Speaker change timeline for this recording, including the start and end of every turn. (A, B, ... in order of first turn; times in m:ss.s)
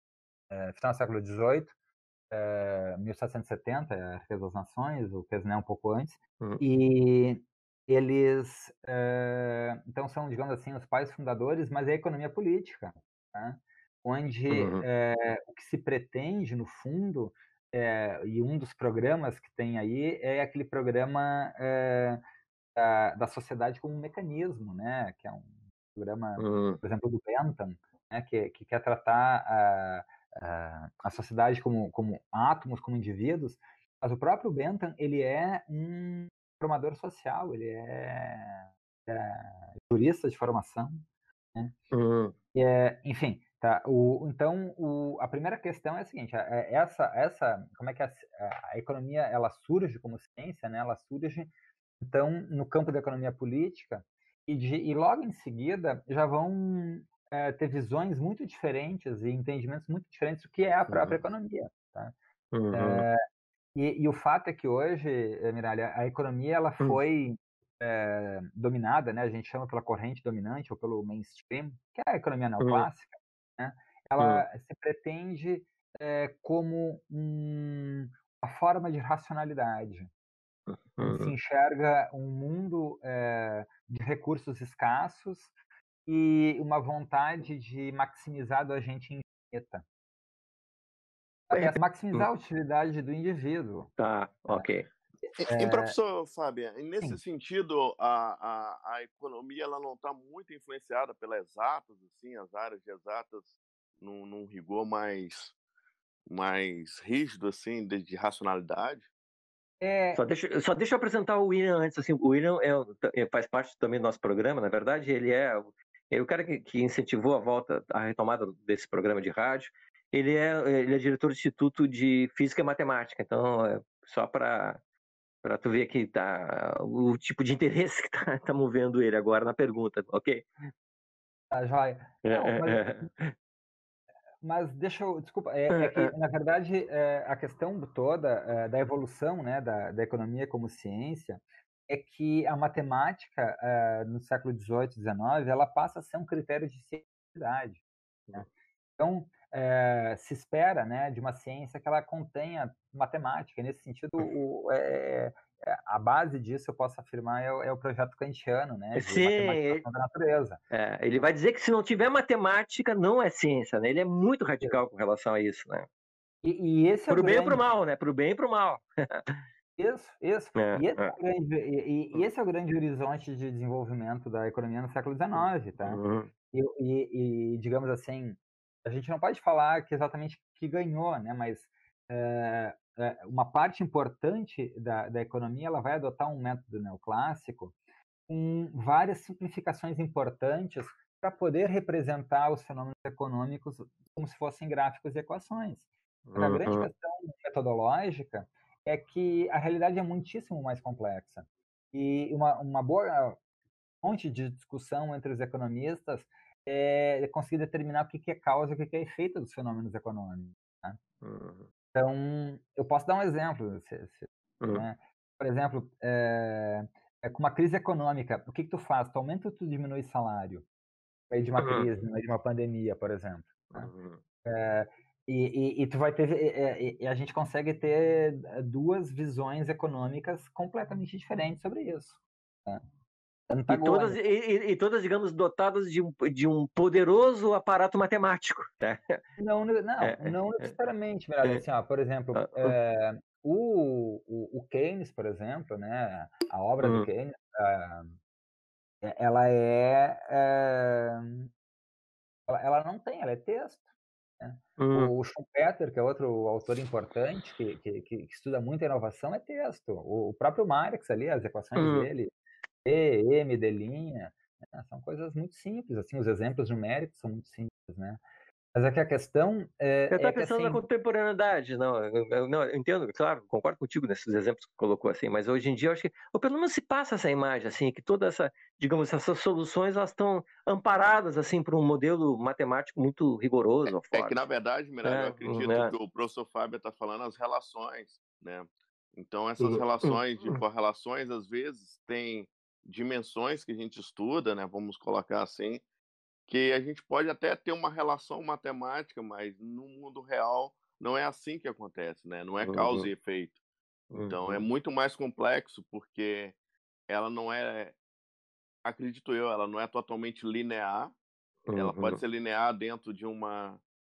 0:00.5-0:01.7 A
0:02.3-0:22.2 A
0:14.5-0:14.8 B
0:22.8-0:41.0 A
0:26.4-0:26.8 B
0:41.9-0:42.3 B
0:42.5-1:02.1 A
1:00.9-1:01.2 B
1:02.5-1:03.0 B
1:02.7-1:03.2 A
1:03.7-1:20.1 A
1:12.6-1:12.9 B
1:14.2-1:14.4 B
1:20.7-1:21.3 B
1:21.0-1:25.5 A
1:26.1-1:29.8 A
1:31.5-1:33.9 A
1:31.5-1:32.3 B
1:34.0-1:34.9 B
1:35.4-1:45.5 C
1:35.5-1:36.0 A
1:46.3-1:49.1 C
1:49.8-1:50.2 A
1:50.1-2:04.8 B
2:05.4-2:10.7 B
2:11.5-2:13.1 A
2:12.2-2:13.3 B
2:14.4-2:27.8 A
2:15.7-2:16.1 B
2:29.0-2:40.6 A
2:38.9-2:39.8 B
2:40.7-2:45.9 B
2:46.4-2:47.6 A
2:47.1-2:49.4 B
2:49.8-2:56.0 A
2:50.6-2:51.2 B
2:55.3-2:56.3 B
2:56.5-3:07.7 A
3:08.3-3:15.8 A
3:16.3-3:16.9 B
3:16.4-3:23.4 A
3:24.0-3:31.0 A
3:31.2-3:31.6 B
3:31.9-3:40.6 A
3:34.6-3:34.8 B
3:41.3-3:43.9 A
3:41.6-3:42.0 B
3:43.7-3:44.2 B
3:44.4-3:52.8 A
3:53.5-3:54.2 A
3:53.7-3:59.2 B
3:59.4-4:08.2 A
4:00.0-4:00.7 B
4:02.3-4:02.8 B
4:06.8-4:07.1 B
4:09.0-4:11.5 A
4:12.5-4:13.8 A
4:14.4-4:22.3 A
4:14.8-4:15.1 B
4:21.8-4:22.1 B
4:22.8-4:28.2 A
4:28.7-4:30.8 A
4:30.1-4:44.4 B
4:44.1-4:55.8 C
4:45.0-4:45.9 B
4:49.6-4:50.6 B
4:56.5-5:03.6 C
5:02.6-5:03.1 B
5:04.1-5:04.6 B
5:04.3-5:06.5 C
5:07.1-5:08.0 C
5:08.8-5:11.2 C
5:11.7-5:12.2 B
5:11.7-5:13.8 C